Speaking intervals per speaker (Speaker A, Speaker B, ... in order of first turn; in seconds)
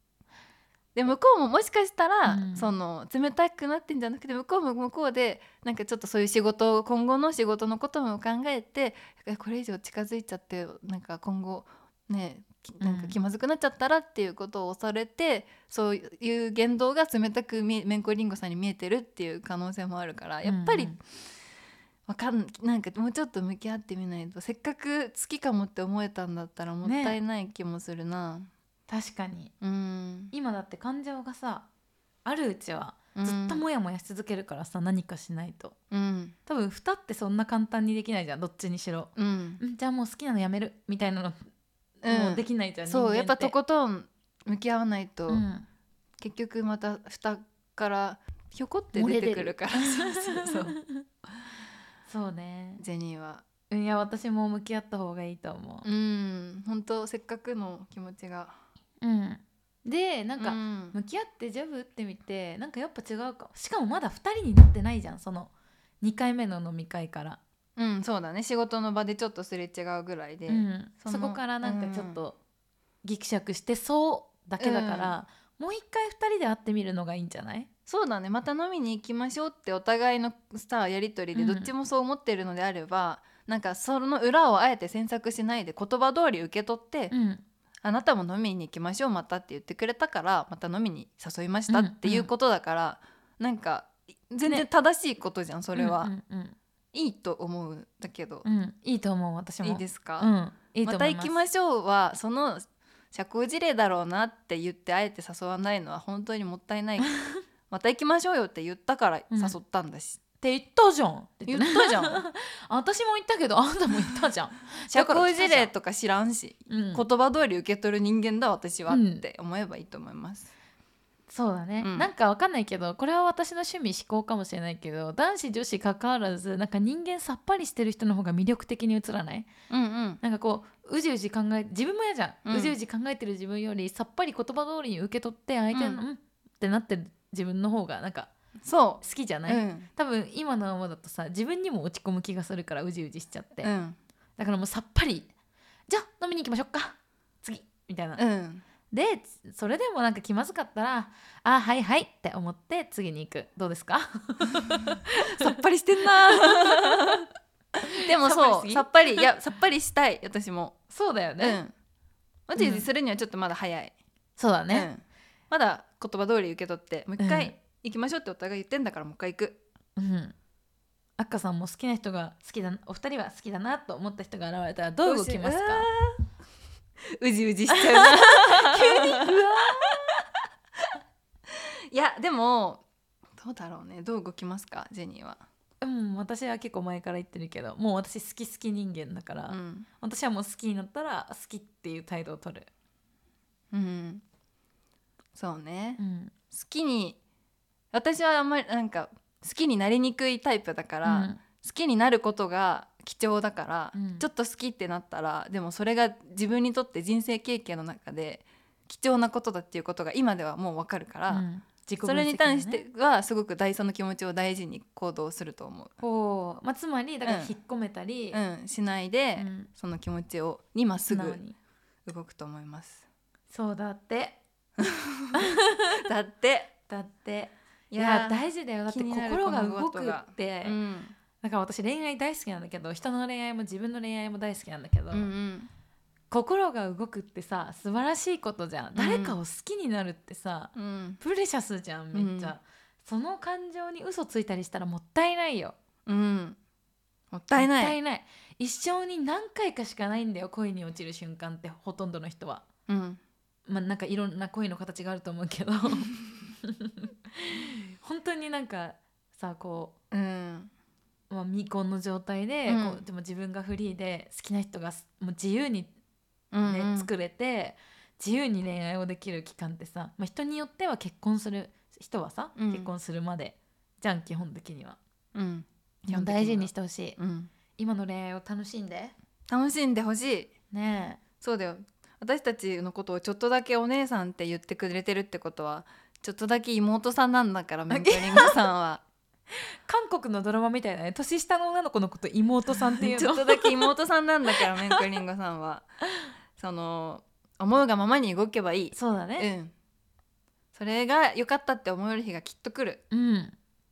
Speaker A: 0.9-21.0, 22.1-28.5, 29.6-30.3, 33.1-33.6, 35.9-36.3, 39.1-39.6, 42.0-45.4, 46.2-50.8, 52.8-53.4, 55.8-58.6, 60.4-61.0, 67.8-72.2, 74.6-75.2, 77.9-87.1, 87.8-96.1, 96.9-98.5, 99.6-100.3, 100.8-110.2, 111.5-112.2, 114.9-120.5, 121.8-122.1, 129.7-130.2, 132.5-132.8, 135.7-136.0, 138.6-139.9, 143.6-144.0, 148.2-148.6, 155.2-157.2, 158.0-160.8, 161.4-161.7, 162.5-163.9, 164.7-169.6, 175.0-176.1, 177.2-180.0, 181.9-182.8, 183.4-185.4, 189.5-189.9, 193.7-194.2, 195.3-196.0, 196.5-197.2, 197.9-211.4, 212.0-215.9, 217.2-217.5, 218.3-221.4, 222.0-223.0, 224.8-225.4, 226.0-226.7, 227.9-231.2, 235.1-235.7, 238.9-239.4, 240.7-241.2, 242.1-242.6, 246.1-246.6, 247.3-248.0, 252.9-253.2, 260.1-260.7, 262.6-263.0, 266.5-267.1, 272.6-272.9, 275.3-277.5, 279.5-280.5, 281.4-289.0, 292.9-295.9, 296.6-299.7, 300.7-303.0
Speaker B: 2.3-2.7, 12.8-13.2, 20.4-21.0, 26.8-27.2, 28.9-29.5, 30.3-31.7, 32.2-35.8, 36.5-41.5, 42.0-43.5, 45.3-45.6, 48.9-51.0, 52.0-52.8, 53.7-55.9, 59.0-67.4, 70.5-72.4, 73.0-77.7, 81.3-81.7, 87.1-87.4, 91.7-92.3, 95.8-96.5, 98.4-101.4, 109.3-109.6, 110.4-115.7, 116.7-117.0, 118.9-119.2, 121.3-129.5, 130.2-138.3, 139.0-143.7, 144.4-145.3, 145.9-148.2, 148.9-155.5, 156.2-157.2, 158.0-159.3, 160.9-161.6, 162.6-162.8, 164.4-164.9, 167.2-167.5, 170.0-170.3, 171.2-175.9, 177.7-179.9, 185.8-192.7, 196.0-196.3, 201.0-201.4, 203.9-204.2, 211.3-212.8, 216.0-218.4, 219.4-219.7, 221.1-221.6, 223.5-224.4, 225.4-225.9, 226.9-230.8, 231.4-235.3, 236.3-245.8, 247.5-252.6, 253.7-259.9, 261.3-265.9, 266.6-275.0, 276.1-277.2, 277.8-279.1, 280.7-281.2, 287.9-288.6, 289.5-293.9, 294.6-294.9, 298.9-299.5, 303.1-303.5